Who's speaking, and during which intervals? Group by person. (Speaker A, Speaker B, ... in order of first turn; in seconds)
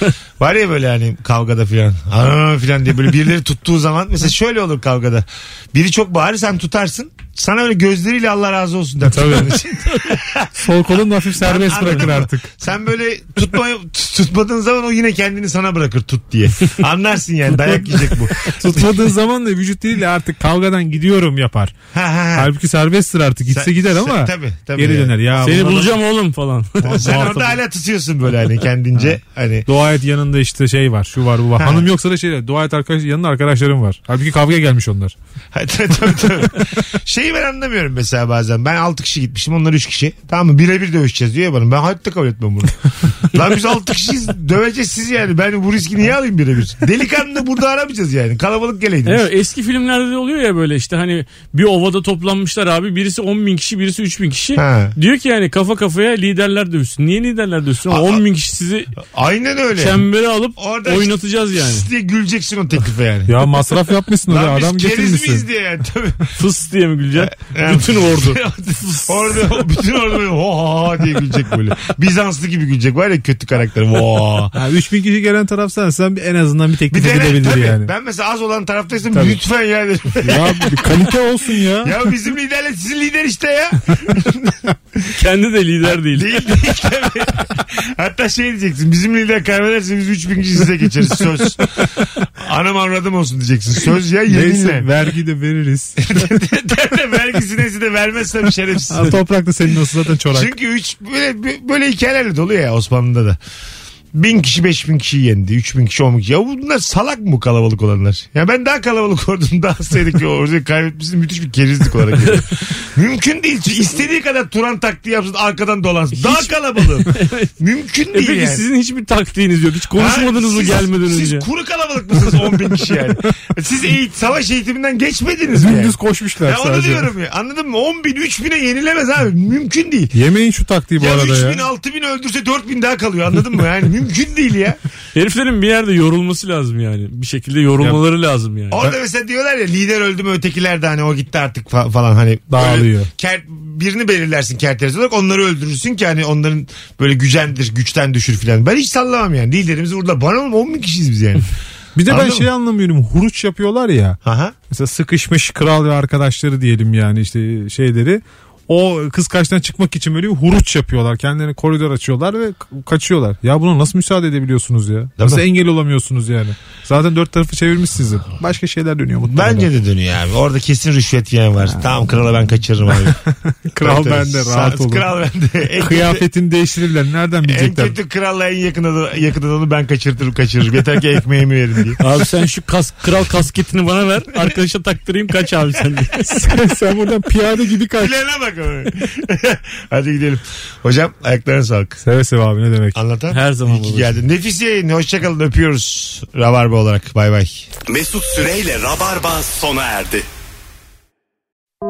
Speaker A: 0.4-10.5, 11.4-18.7, 21.9-22.5, 23.5-25.2, 26.8-29.7, 31.6-31.9, 35.5-49.3, 54.6-55.0, 57.9-58.2, 59.0-63.4, 64.3-66.3, 67.2-74.5, 76.9-80.9, 81.8-84.6, 86.0-94.9, 96.0-99.2, 100.3-103.4, 104.1-118.6, 120.0-130.1, 131.0-134.8, 138.7-151.5, 152.1-152.5, 154.2-154.6, 165.2-165.4, 169.3-173.2, 173.8-176.2, 177.5-182.0, 188.0-192.0, 192.9-197.7
Speaker B: 9.1-9.6, 10.6-12.5, 18.5-21.8, 22.4-26.0, 26.9-27.4, 29.7-35.1, 63.3-65.5, 74.5-77.9, 79.1-79.4, 80.2-82.0, 94.3-96.0, 98.9-100.5, 125.5-127.1, 130.1-131.7, 142.5-143.1, 152.0-154.2, 154.7-169.7, 172.9-175.1, 175.8-177.9, 186.3-188.1, 192.0-193.0
Speaker C: 9.7-10.0, 25.4-27.5, 49.0-58.9, 59.8-61.9, 66.4-69.1, 85.1-86.5, 116.2-116.5, 117.1-117.5, 118.1-121.5, 135.1-138.8, 182.0-186.2, 193.3-194.1
Speaker D: 197.9-200.3